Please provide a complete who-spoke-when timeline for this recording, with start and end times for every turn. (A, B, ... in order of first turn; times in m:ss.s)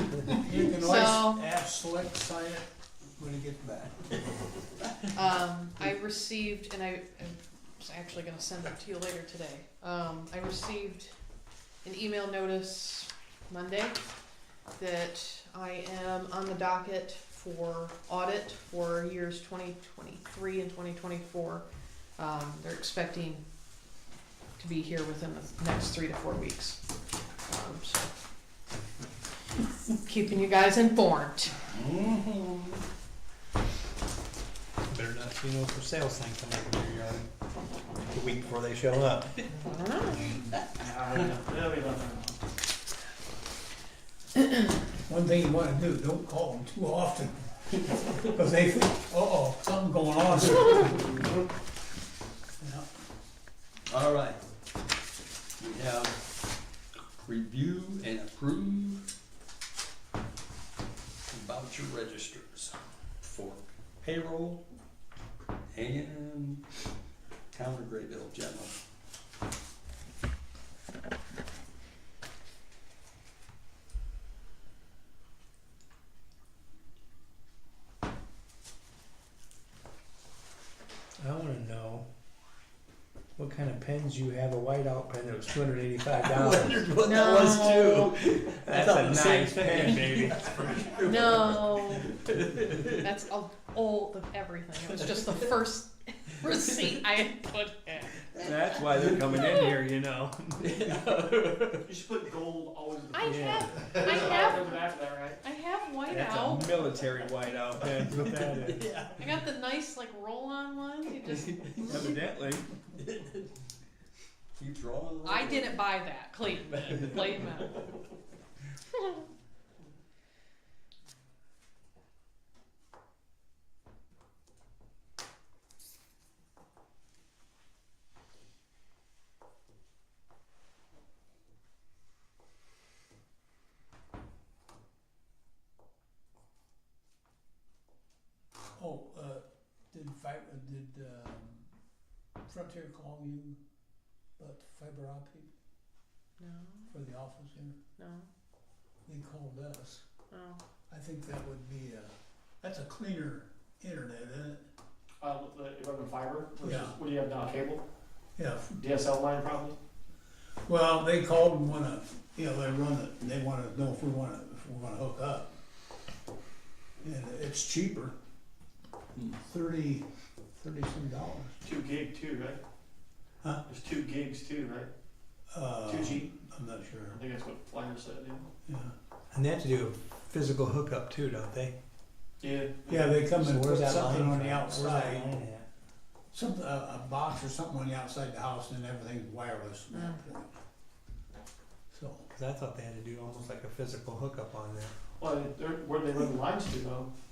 0:00.3-0:04.0 A
0:00.3-0:01.4 B
0:05.1-0:11.1 B
0:11.8-0:14.0 B
0:14.8-0:21.6 B
0:22.2-0:23.4 B
0:24.6-0:26.8 B
0:27.5-0:28.1 B
0:29.9-0:31.5 B
0:31.7-0:32.8 C
0:34.9-0:37.3 D
0:38.1-0:39.3 D
0:39.6-0:40.4 B
0:40.3-0:42.4 E
0:45.1-0:47.4 A
0:48.2-0:51.1 A
0:52.6-0:52.9 A
0:53.9-0:54.4 C
0:55.6-0:56.2 C
0:57.2-0:59.1 C
1:01.3-1:04.6 C
1:05.7-1:06.6 C
1:07.5-1:08.8 C
1:21.2-1:22.0 D
1:23.4-1:26.8 D
1:26.1-1:33.0 C
1:27.0-1:28.1 B
1:28.6-1:30.8 D
1:31.0-1:32.1 B
1:32.9-1:38.5 B
1:38.4-1:40.9 D
1:39.3-1:39.7 B
1:40.6-1:41.8 C
1:41.8-1:45.4 E
1:43.1-1:44.7 B
1:43.2-1:43.7 D
1:44.1-1:44.3 C
1:45.4-1:47.0 B
1:46.1-1:48.8 D
1:48.0-1:49.2 C
1:49.2-1:52.1 B
1:51.3-1:52.1 C
1:51.8-1:52.7 D
1:52.9-1:53.5 C
1:54.6-1:55.8 C
1:55.2-1:57.9 B
1:56.9-1:57.4 C
1:58.9-1:59.2 B
2:18.8-2:21.6 A
2:22.4-2:23.6 A
2:24.4-2:25.5 A
2:26.4-2:26.9 B
2:26.9-2:27.8 A
2:28.0-2:28.3 B
2:29.1-2:30.0 A
2:30.3-2:30.6 B
2:30.9-2:34.6 A
2:35.2-2:37.8 E
2:36.6-2:37.0 A
2:38.4-2:38.7 A
2:38.8-2:39.8 E
2:40.6-2:45.5 A
2:47.0-2:48.2 A
2:49.4-2:50.0 A
2:50.6-2:51.6 A
2:51.6-2:52.6 E
2:53.7-2:54.9 E
2:55.5-2:57.2 A
2:55.9-2:56.3 E
2:57.1-2:58.5 E
2:58.7-2:58.9 A
2:59.3-3:01.7 D
3:02.4-3:03.2 E
3:02.9-3:05.3 A
3:03.3-3:05.7 D
3:06.3-3:10.5 A
3:09.9-3:10.2 B
3:11.9-3:12.3 A
3:12.3-3:14.9 D
3:15.2-3:17.1 E